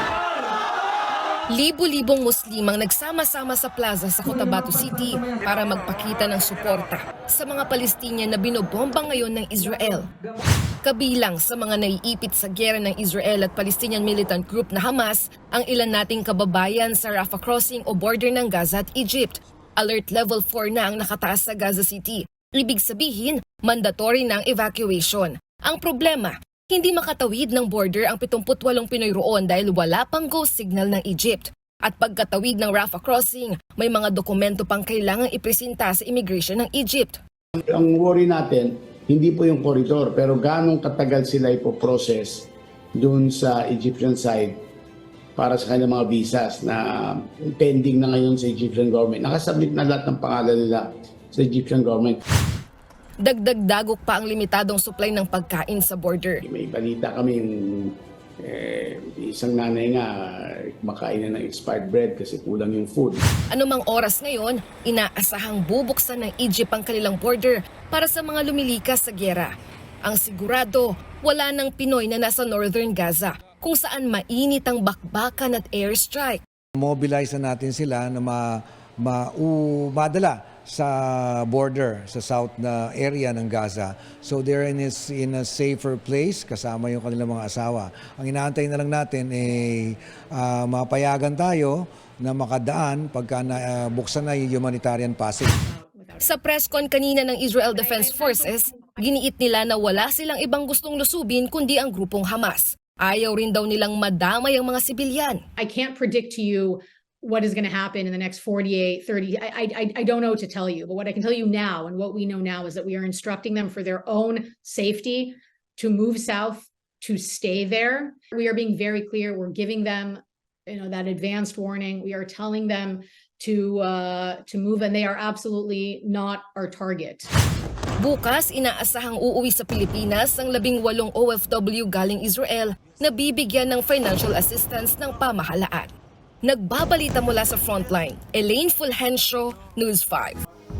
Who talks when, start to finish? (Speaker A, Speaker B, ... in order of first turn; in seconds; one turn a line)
Speaker A: 1.5-10.1
Speaker A: 10.8-37.2
Speaker B: 37.7-44.6
Speaker B: 45.4-52.2
Speaker A: 53.2-56.4
Speaker B: 56.5-63.2
Speaker A: 63.5-69.5
Speaker A: 70.0-76.4
Speaker C: 76.8-78.4
Speaker C: 79.0-89.8
Speaker C: 90.4-95.5
Speaker D: 95.6-96.4
Speaker A: 96.2-105.4
Speaker D: 97.7-98.8
Speaker D: 105.6-127.3
Speaker A: 128.0-135.9
Speaker A: 136.4-140.4